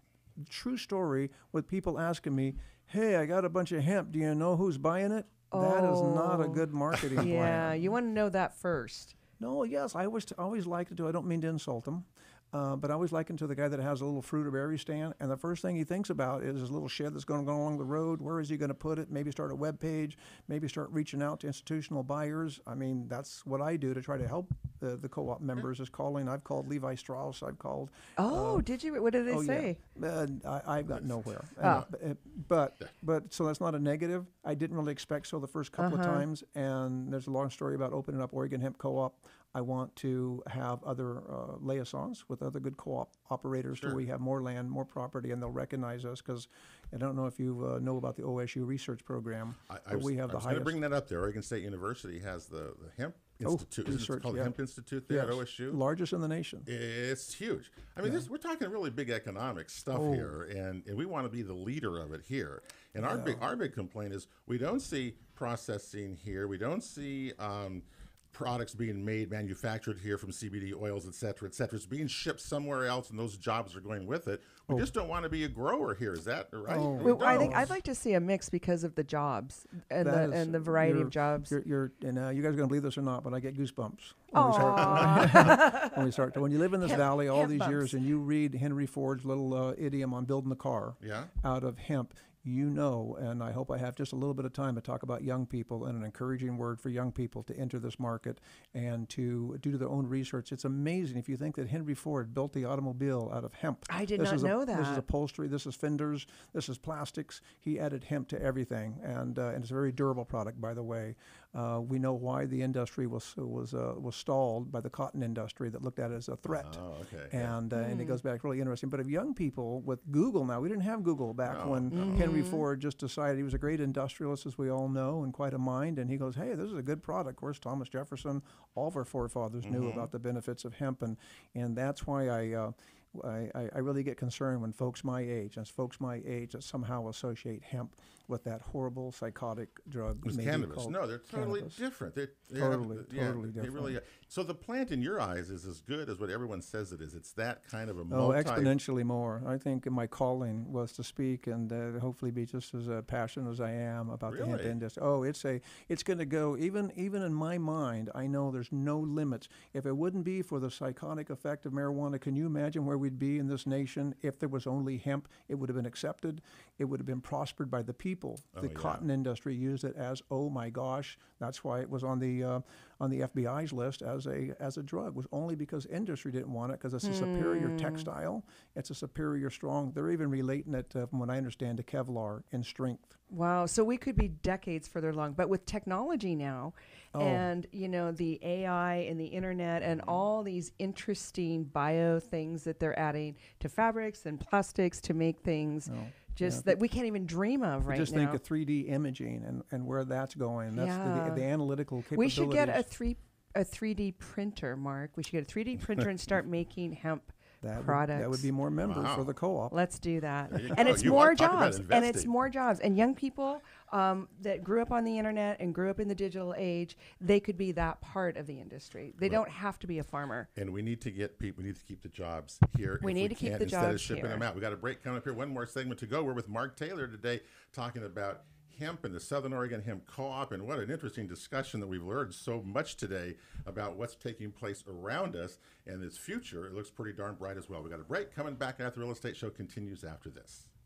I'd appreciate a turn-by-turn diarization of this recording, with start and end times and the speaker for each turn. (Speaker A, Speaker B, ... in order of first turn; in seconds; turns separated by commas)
Speaker A: 0.4-8.0, Speaker B: 5.5-6.7, Speaker B: 7.2-9.2, Speaker A: 9.4-28.6, Speaker B: 28.2-29.8, Speaker A: 29.3-50.8, Speaker B: 31.6-31.9, Speaker C: 31.6-31.9, Speaker B: 35.8-36.2, Speaker C: 43.7-44.0, Speaker C: 49.7-55.8, Speaker A: 53.4-54.5, Speaker A: 55.1-56.7, Speaker C: 56.6-77.7, Speaker A: 59.9-60.3, Speaker A: 63.0-63.4, Speaker A: 76.7-77.8, Speaker B: 77.0-81.6, Speaker A: 80.0-141.8, Speaker B: 84.3-86.0, Speaker C: 84.5-85.6, Speaker B: 86.8-88.0, Speaker C: 91.0-91.3, Speaker B: 103.9-105.0, Speaker C: 116.5-117.6, Speaker B: 117.7-118.2, Speaker C: 121.4-122.3, Speaker B: 121.9-122.6, Speaker C: 129.6-130.1, Speaker C: 140.2-148.8, Speaker A: 142.5-144.0, Speaker A: 148.1-183.2, Speaker C: 154.3-154.8, Speaker C: 168.5-169.0, Speaker B: 177.0-178.1, Speaker B: 183.3-198.4, Speaker A: 187.1-187.5, Speaker C: 189.8-190.2, Speaker A: 195.8-196.8, Speaker A: 197.8-202.9, Speaker B: 200.7-201.5, Speaker B: 202.1-208.5, Speaker A: 207.6-209.8, Speaker C: 208.8-209.3, Speaker B: 209.7-220.5, Speaker C: 210.5-212.3, Speaker C: 220.6-240.7, Speaker B: 223.0-224.4